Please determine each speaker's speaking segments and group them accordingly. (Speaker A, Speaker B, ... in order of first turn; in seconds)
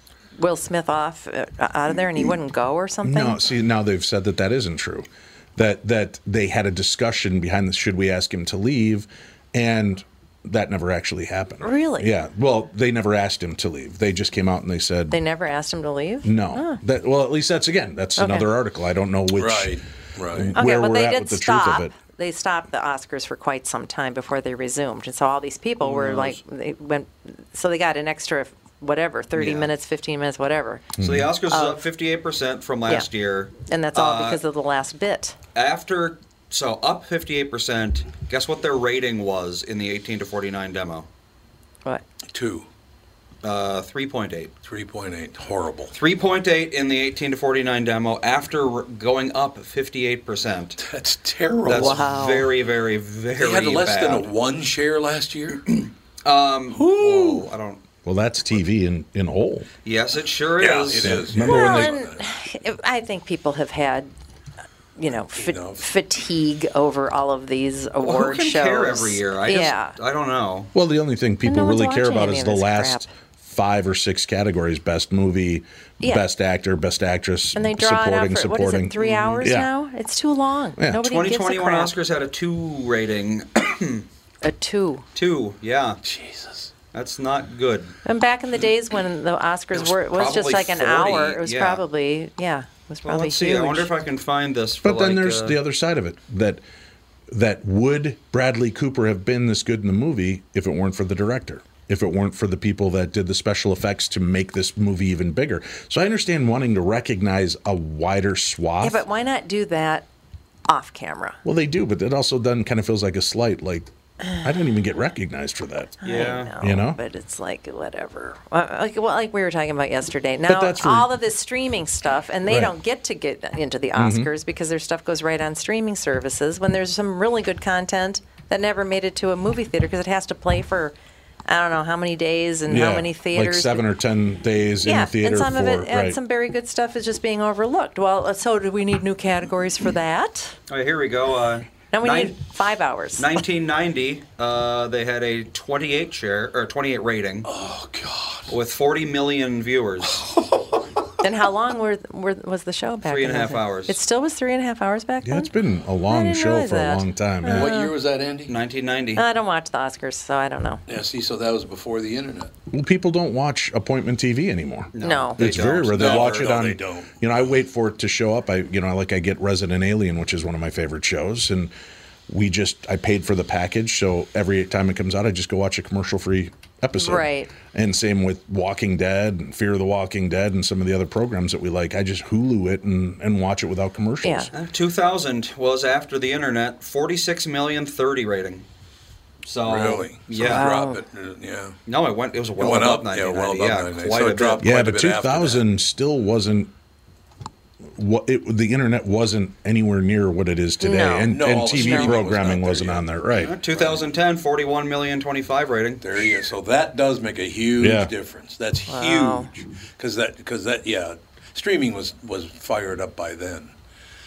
Speaker A: 0.4-3.4, 11.6-12.1, 15.1-16.8, 18.2-18.5, 20.6-30.9, 31.5-31.8, 33.7-35.4, 51.7-52.5, 61.4-64.1, 65.0-70.0, 71.5-73.1, 77.5-81.9, 84.4-85.1, 88.0-93.9, 108.8-110.1, 110.7-111.4, 116.0-130.9, 131.5-133.8, 134.8-140.6, 141.9-143.3, 151.2-155.5, 156.1-157.9, 159.2-160.8, 165.0-165.4, 177.0-177.5, 184.2-184.5, 190.4-191.0, 200.8-202.2, 208.9-209.5
Speaker B: 3.0-15.2, 16.2-21.9, 31.0-31.4, 58.0-59.7, 61.0-62.0, 70.7-79.7, 80.8-81.0, 94.8-96.6, 97.3-109.0, 111.4-117.0, 120.5-121.1, 122.5-122.7, 124.0-124.3, 132.7-136.2, 155.2-157.7, 162.7-171.7, 172.3-184.5, 194.6-196.7, 197.9-203.5, 207.8-208.1
Speaker C: 19.4-20.6, 42.3-42.7, 44.6-45.9, 50.8-52.1, 53.3-55.7, 56.7-57.5, 60.6-62.2, 65.4-65.8, 86.0-86.7, 147.4-148.5, 150.2-150.7, 157.5-158.6, 160.9-162.5, 165.9-167.2, 189.7-191.8, 192.6-195.7, 201.3-203.1, 203.7-204.1, 206.0-213.7
Speaker D: 25.8-26.4, 29.4-29.7, 31.0-34.4, 35.5-41.1, 43.4-44.5, 45.9-50.8, 51.6-54.3, 56.2-57.8, 59.8-61.2, 68.0-70.7, 79.0-79.5, 81.0-84.1, 85.2-86.0, 86.9-87.9, 89.7-91.8, 93.0-95.6, 116.0-116.5, 140.7-142.4, 143.2-147.5, 148.5-150.3, 153.0-154.0, 158.5-159.2, 164.9-166.5, 184.5-188.7, 189.4-190.7, 191.9-194.6, 203.4-206.0